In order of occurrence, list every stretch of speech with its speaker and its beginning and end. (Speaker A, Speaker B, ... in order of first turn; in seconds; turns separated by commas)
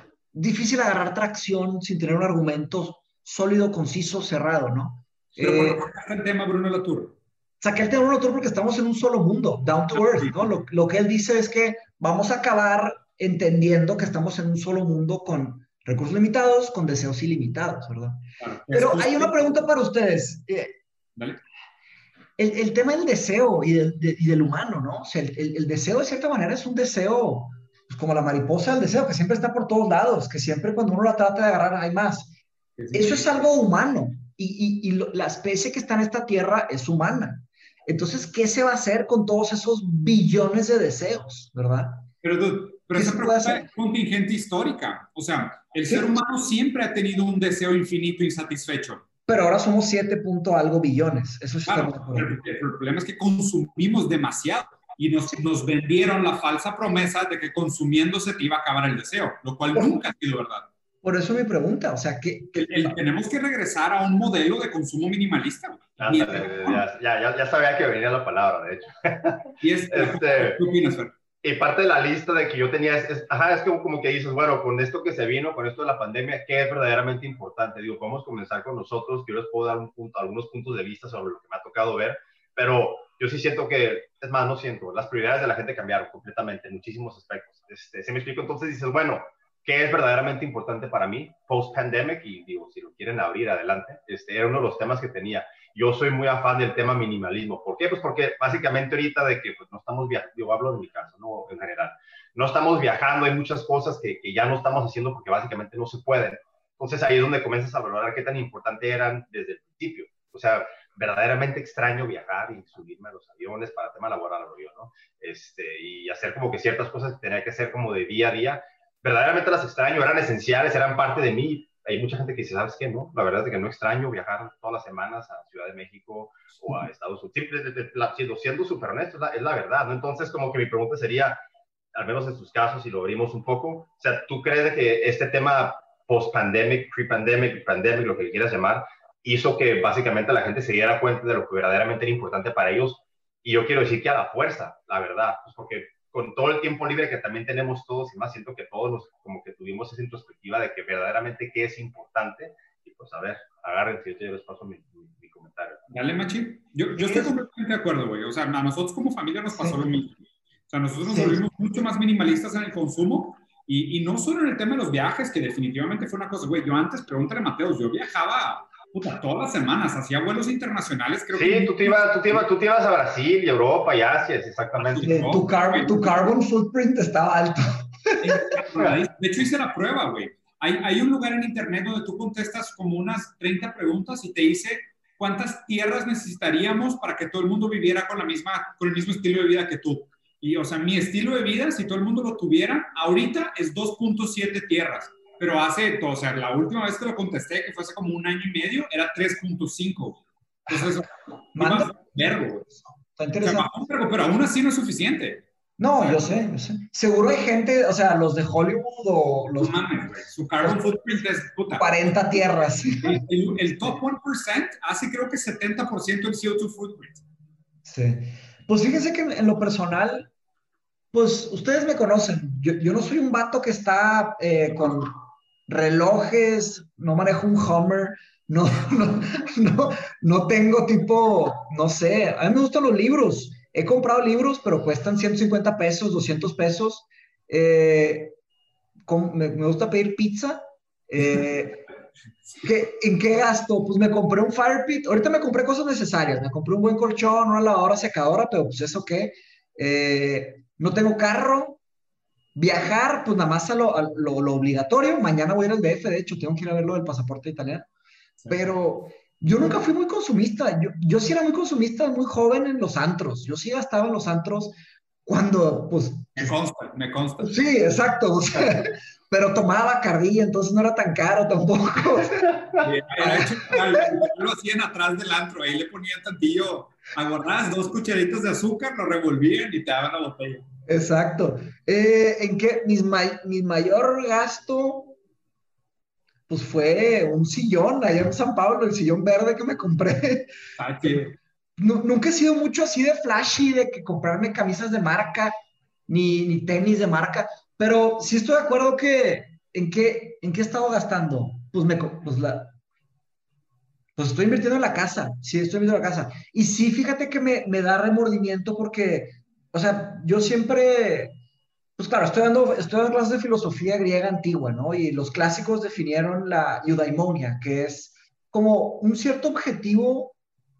Speaker A: 0.3-5.8, Speaker B: 5.3-7.2, Speaker A: 7.6-20.8, Speaker B: 9.9-10.5, Speaker B: 18.4-19.6, Speaker B: 21.1-21.4, Speaker A: 22.4-32.4, Speaker B: 32.8-33.5, Speaker A: 32.9-42.1, Speaker B: 42.2-49.0, Speaker A: 42.9-43.7, Speaker A: 45.9-46.2, Speaker A: 49.3-52.3, Speaker B: 51.7-60.7, Speaker A: 61.0-63.0, Speaker B: 62.5-66.8, Speaker C: 66.0-70.6, Speaker B: 69.6-71.1, Speaker C: 71.4-131.4, Speaker C: 131.9-155.8, Speaker B: 155.9-172.4, Speaker A: 156.9-157.3, Speaker A: 159.5-159.8, Speaker A: 161.0-161.4, Speaker C: 171.3-175.1, Speaker B: 174.8-176.1, Speaker A: 175.0-178.4, Speaker B: 178.2-202.7, Speaker A: 201.5-202.2, Speaker A: 203.2-203.7, Speaker B: 203.4-205.4, Speaker A: 205.8-210.1, Speaker B: 206.0-206.2, Speaker B: 209.6-212.1, Speaker A: 211.8-213.2, Speaker B: 213.0-217.2, Speaker A: 217.8-220.3, Speaker A: 221.1-238.3, Speaker A: 239.1-241.8, Speaker A: 242.6-251.8, Speaker A: 252.5-257.9, Speaker B: 258.4-258.6, Speaker A: 258.5-266.5, Speaker B: 266.4-267.6, Speaker A: 267.4-274.2, Speaker B: 272.8-280.7, Speaker A: 280.9-285.1, Speaker A: 286.5-290.5, Speaker B: 290.8-291.3, Speaker A: 291.0-295.5, Speaker A: 296.1-302.7, Speaker A: 304.2-311.3, Speaker A: 312.0-320.3